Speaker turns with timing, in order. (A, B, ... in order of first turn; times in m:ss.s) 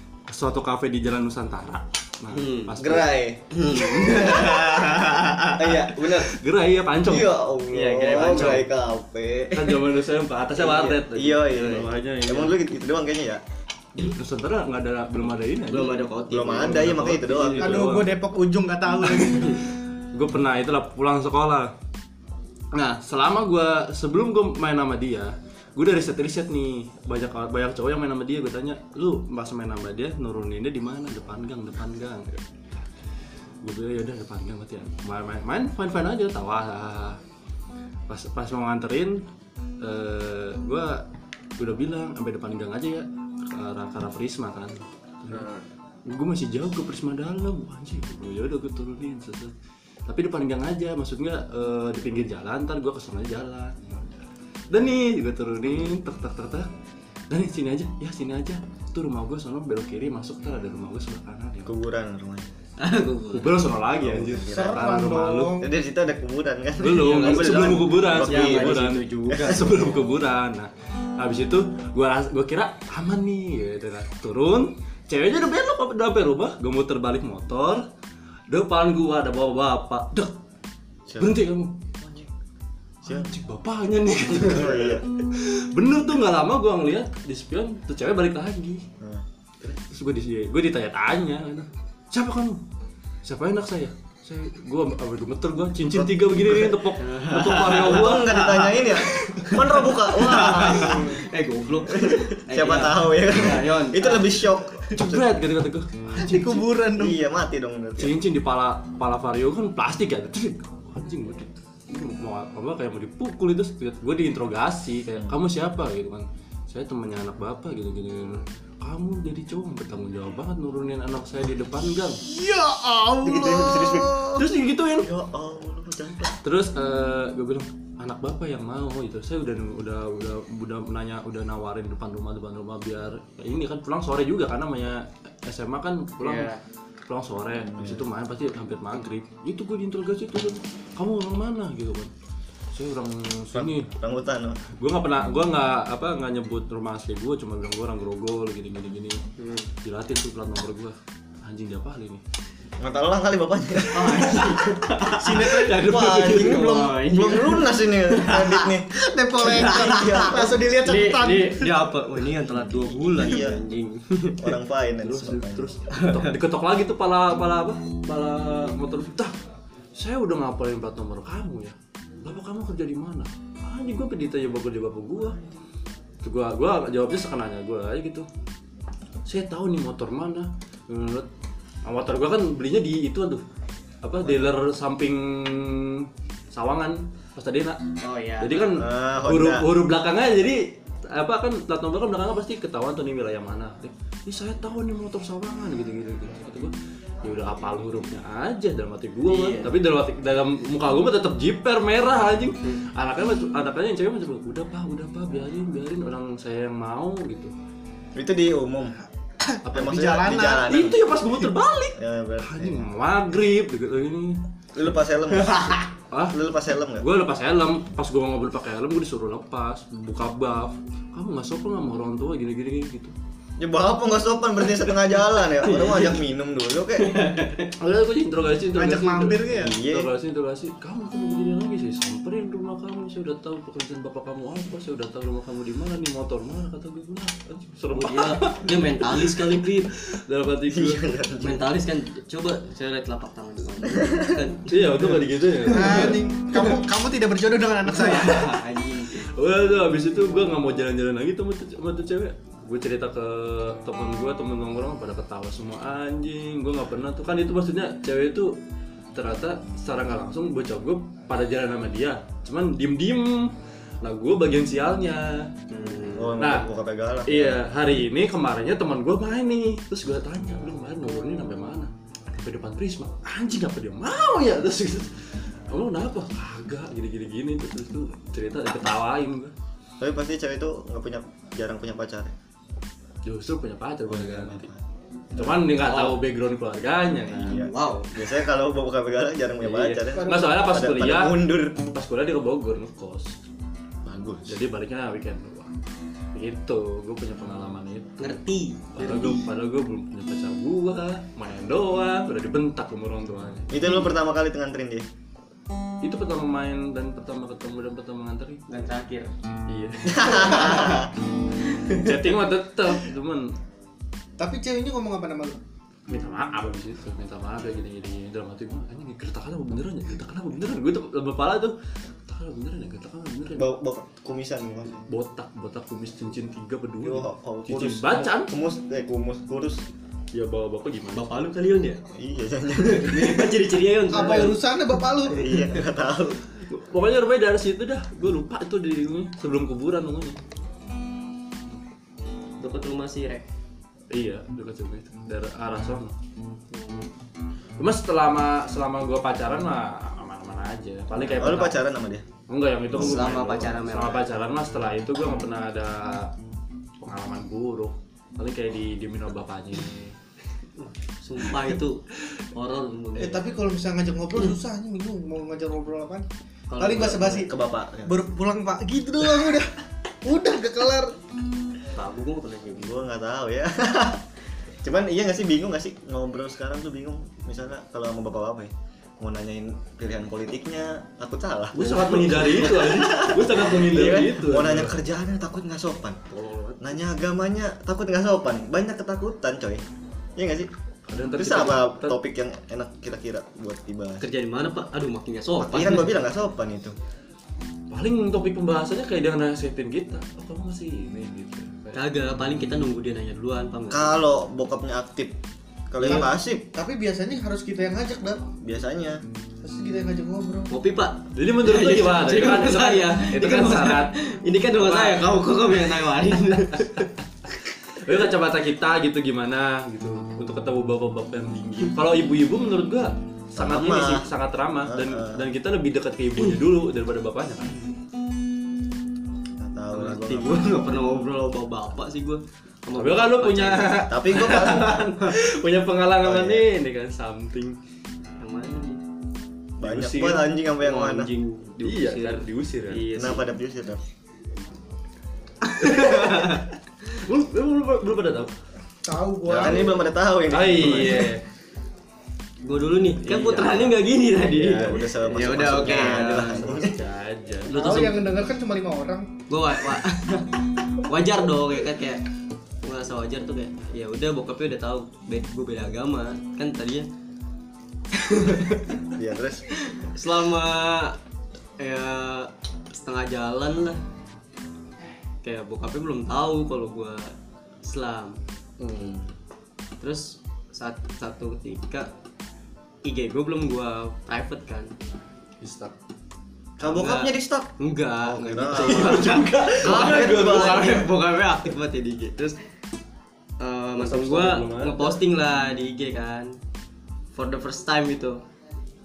0:00.3-0:03.1 A
0:02.3-0:02.8 B
0:02.8-0:04.7 C
0:03.5-0:05.7 B
0:05.6-0:06.4 C
0:05.9-0:07.3 A
0:07.0-0:09.8 C
0:07.7-0:08.6 B
0:08.1-0:08.6 A
0:09.5-0:12.6 A
0:10.6-0:13.4 C
0:14.0-0:16.0 A
0:15.7-0:17.9 B
0:16.3-0:17.8 C
0:16.6-0:18.1 A
0:17.6-0:19.6 D
0:19.0-0:19.5 A
0:20.1-0:21.7 A
0:22.7-0:32.3 A
0:33.6-0:37.2 A
0:38.1-0:39.2 A
0:39.8-0:41.0 A
0:41.6-0:45.5 A
0:46.1-0:49.5 A
0:50.1-0:54.1 A
0:54.7-0:56.7 A
0:57.3-1:01.7 A
1:01.6-1:02.5 C
1:02.8-1:03.5 B
1:03.3-1:05.6 A
1:04.0-1:05.0 C
1:04.5-1:05.7 D
1:05.6-1:10.0 C
1:06.8-1:17.8 A
1:07.0-1:09.9 B
1:18.5-1:20.3 A
1:21.1-1:21.4 C
1:21.2-1:21.7 A
1:22.0-1:22.3 C
1:23.0-1:28.8 A
1:24.4-1:25.0 C
1:29.0-1:29.7 C
1:29.8-1:32.6 A
1:33.2-1:38.4 A
1:35.9-1:36.8 C
1:37.0-1:44.4 B
1:37.7-1:41.2 C
1:41.9-1:45.4 C
1:44.9-1:46.7 A
1:46.2-1:47.2 D
1:46.9-1:48.1 C
1:48.0-2:02.2 A
2:02.2-2:04.3 D
2:03.2-2:04.4 C
2:04.4-2:05.1 A
2:05.0-2:06.4 C
2:06.4-2:16.5 A
2:16.2-2:16.6 B
2:17.1-2:22.1 A
2:17.6-2:18.0 C
2:22.7-2:23.9 A
2:23.5-2:24.6 C
2:24.8-2:29.2 A
2:29.4-2:29.7 B
2:29.8-2:32.2 A
2:32.8-2:34.6 C
2:33.9-2:38.7 B
2:35.4-2:36.7 A
2:35.7-2:38.9 C
2:38.9-2:41.7 D
2:39.4-2:44.5 B
2:39.4-2:40.6 C
2:42.6-2:43.6 C
2:44.4-2:45.7 C
2:45.0-2:49.3 A
2:45.9-2:46.4 B
2:50.0-2:55.4 A
2:56.2-2:58.2 A
2:59.2-3:01.3 A
3:01.8-3:03.4 A
3:04.0-3:07.8 A
3:08.0-3:08.8 B
3:08.4-3:16.7 A
3:08.7-3:09.7 C
3:17.2-3:27.5 A
3:19.3-3:19.8 B
3:28.1-3:29.0 C
3:29.7-3:34.4 A
3:29.7-3:31.0 C
3:29.7-3:30.7 D
3:32.0-3:32.9 C
3:34.8-3:35.8 C
3:35.4-3:35.8 B
3:36.1-3:36.4 A
3:36.3-3:37.1 C
3:37.0-3:43.1 A
3:43.6-3:47.2 C
3:45.4-3:46.2 B
3:47.0-3:47.7 B
3:47.8-4:01.1 A
3:48.8-3:49.7 D
3:49.6-3:50.1 C
3:57.9-3:59.9 B
4:00.7-4:01.7 C
4:01.4-4:06.8 B
4:03.9-4:04.4 C
4:04.7-4:06.2 A
4:05.7-4:08.6 D
4:07.9-4:09.2 B
4:09.2-4:18.5 A
4:19.1-4:25.5 A
4:25.7-4:26.4 B
4:26.1-4:27.6 C
4:26.4-4:26.7 A
4:27.2-4:35.1 A
4:35.7-4:39.5 A
4:40.0-4:42.3 C
4:43.2-4:44.6 A
4:44.1-4:44.8 C
4:45.3-4:45.6 C
4:45.4-4:47.7 A
4:45.8-4:46.2 B
4:47.3-4:51.8 C
4:47.4-4:48.2 B
4:49.6-4:53.3 A
4:50.2-4:50.6 D
4:54.1-4:54.6 C
4:54.4-4:55.7 A
4:56.4-4:58.4 A
4:58.2-4:59.4 B
4:59.0-5:04.0 A
5:03.7-5:05.1 C
5:06.0-5:08.6 A
5:08.7-5:09.3 B
5:09.7-5:10.8 A
5:10.1-5:11.1 C
5:10.2-5:11.1 B
5:11.6-5:12.2 B
5:11.9-5:13.5 A
5:14.4-5:15.6 D
5:16.1-5:21.8 A
5:22.3-5:23.7 A
5:23.6-5:25.0 C
5:25.1-5:28.5 A
5:27.0-5:29.8 C
5:30.3-5:31.2 A
5:31.1-5:32.0 B
5:32.1-5:33.5 C
5:32.8-5:34.6 B
5:34.1-5:35.6 D
5:35.3-5:36.4 C
5:36.7-5:40.4 A
5:42.6-5:43.4 B
5:44.1-5:46.1 A
5:46.7-5:47.1 B
5:47.8-5:51.8 A
5:51.1-5:52.2 C
5:52.5-5:56.3 A
5:52.9-5:53.3 C
5:53.0-5:54.3 B
5:57.0-6:00.1 A
6:00.8-6:03.4 B
6:03.2-6:06.2 D
6:06.7-6:07.5 B
6:06.8-6:07.5 D
6:07.3-6:08.1 C
6:08.0-6:09.7 D
6:10.2-6:11.1 D
6:11.9-6:12.9 B
6:12.8-6:14.2 C
6:14.8-6:26.2 C
6:21.7-6:25.0 A
6:26.3-6:27.0 A
6:26.8-6:29.8 C
6:30.4-6:30.7 C
6:31.1-6:32.2 A
6:31.4-6:34.2 C
6:34.2-6:36.2 B
6:35.6-6:37.0 C
6:37.9-6:42.0 A
6:41.9-6:44.2 B
6:43.9-6:45.4 C
6:45.9-6:46.7 C
6:46.1-6:48.4 D
6:48.6-6:49.2 C
6:49.6-6:50.7 D
6:50.7-6:57.1 B
6:51.3-6:54.1 A
6:54.8-6:55.5 A
6:56.7-6:57.1 A
6:58.0-7:07.8 A
7:03.5-7:04.3 C
7:04.8-7:05.4 C
7:09.6-7:10.6 C
7:09.9-7:14.0 B
7:13.0-7:17.8 A
7:14.1-7:15.0 C
7:14.8-7:15.4 B
7:16.2-7:16.6 C
7:18.4-7:19.0 B
7:19.8-7:20.5 A
7:19.8-7:21.3 C
7:20.8-7:23.4 B
7:21.8-7:23.0 A
7:23.1-7:24.0 C
7:25.6-7:26.6 B
7:25.8-7:26.6 A
7:27.2-7:28.5 A
7:29.0-7:30.0 D
7:29.5-7:31.3 C
7:29.6-7:29.9 A
7:30.5-7:31.4 A
7:32.6-7:36.6 B
7:33.2-7:37.0 C
7:35.6-7:38.3 A
7:37.7-7:39.3 D
7:37.7-7:38.2 B
7:39.5-7:42.2 B
7:42.8-7:47.1 B
7:48.1-7:49.0 B
7:49.2-7:49.6 C
7:49.9-7:51.2 B
7:51.8-7:54.0 B
7:55.4-7:57.3 B
7:57.8-7:58.4 B
7:58.8-7:59.2 A
8:00.0-8:02.1 B
8:03.0-8:04.9 B
8:05.6-8:05.9 A
8:06.8-8:07.7 C
8:06.8-8:12.6 B
8:08.2-8:11.0 C
8:08.8-8:11.0 A
8:13.6-8:16.5 B
8:14.0-8:15.2 A
8:17.4-8:18.4 B